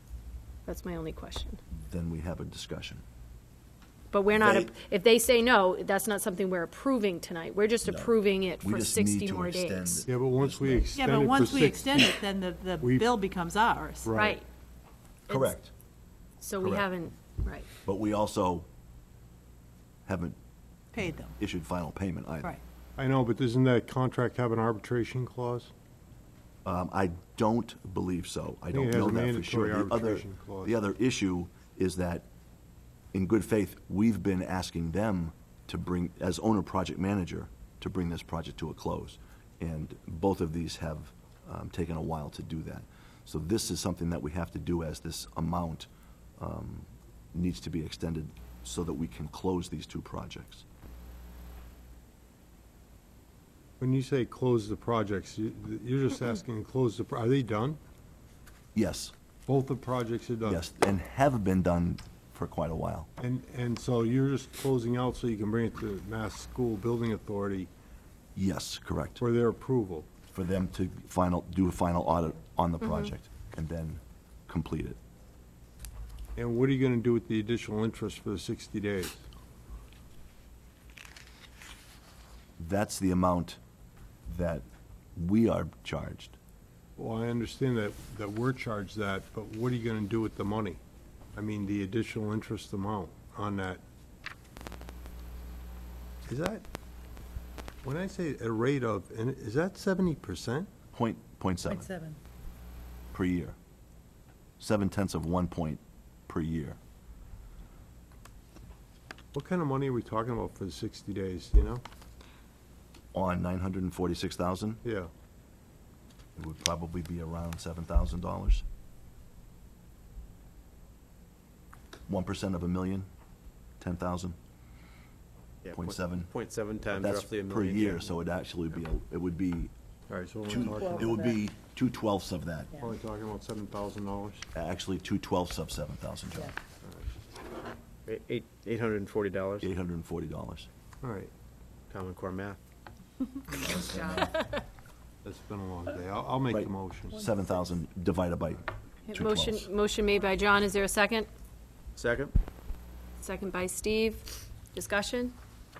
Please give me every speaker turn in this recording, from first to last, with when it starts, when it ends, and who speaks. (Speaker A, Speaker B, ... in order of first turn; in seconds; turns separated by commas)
Speaker A: 0.7-1.6, Speaker B: 1.7-3.0, Speaker A: 4.1-10.0, Speaker B: 4.3-4.7, Speaker B: 7.8-10.9, Speaker C: 10.1-12.2, Speaker D: 10.9-14.1, Speaker C: 12.8-13.1, Speaker C: 14.0-14.4, Speaker A: 14.1-14.4, Speaker A: 15.3-15.5, Speaker B: 15.3-15.7, Speaker A: 16.4-17.7, Speaker B: 17.8-18.7, Speaker B: 20.1-20.4, Speaker D: 20.9-21.4, Speaker B: 21.0-22.6, Speaker C: 23.0-25.7, Speaker B: 26.6-32.2, Speaker C: 28.7-30.7, Speaker B: 33.1-50.6, Speaker C: 53.8-57.8, Speaker B: 58.7-59.1, Speaker C: 59.5-60.6, Speaker B: 60.4-63.1, Speaker C: 63.2-67.7, Speaker B: 68.3-69.2, Speaker C: 69.2-70.1, Speaker B: 70.3-75.0, Speaker A: 72.8-73.1, Speaker C: 76.3-79.2, Speaker B: 82.6-83.6, Speaker B: 84.3-86.4, Speaker C: 87.0-90.8, Speaker C: 91.3-93.8, Speaker C: 96.2-96.6, Speaker C: 97.8-100.7, Speaker B: 100.9-101.9, Speaker D: 101.7-102.2, Speaker B: 103.1-103.5, Speaker B: 104.6-106.8, Speaker C: 109.3-111.8, Speaker B: 113.1-114.8, Speaker C: 114.8-115.1, Speaker B: 116.3-118.6, Speaker B: 122.1-123.1, Speaker B: 123.8-124.3, Speaker E: 125.6-128.1, Speaker B: 125.7-126.3, Speaker B: 126.9-129.7, Speaker C: 130.1-131.2, Speaker B: 130.5-132.8, Speaker D: 130.6-131.4, Speaker C: 132.8-134.5, Speaker B: 134.5-136.5, Speaker C: 136.8-137.1, Speaker E: 138.1-139.7, Speaker B: 139.6-140.7, Speaker C: 141.0-141.3, Speaker E: 141.9-142.6, Speaker B: 143.5-144.4, Speaker C: 145.2-147.2, Speaker B: 146.5-149.7, Speaker A: 149.1-151.3, Speaker E: 152.0-152.3, Speaker A: 153.2-155.3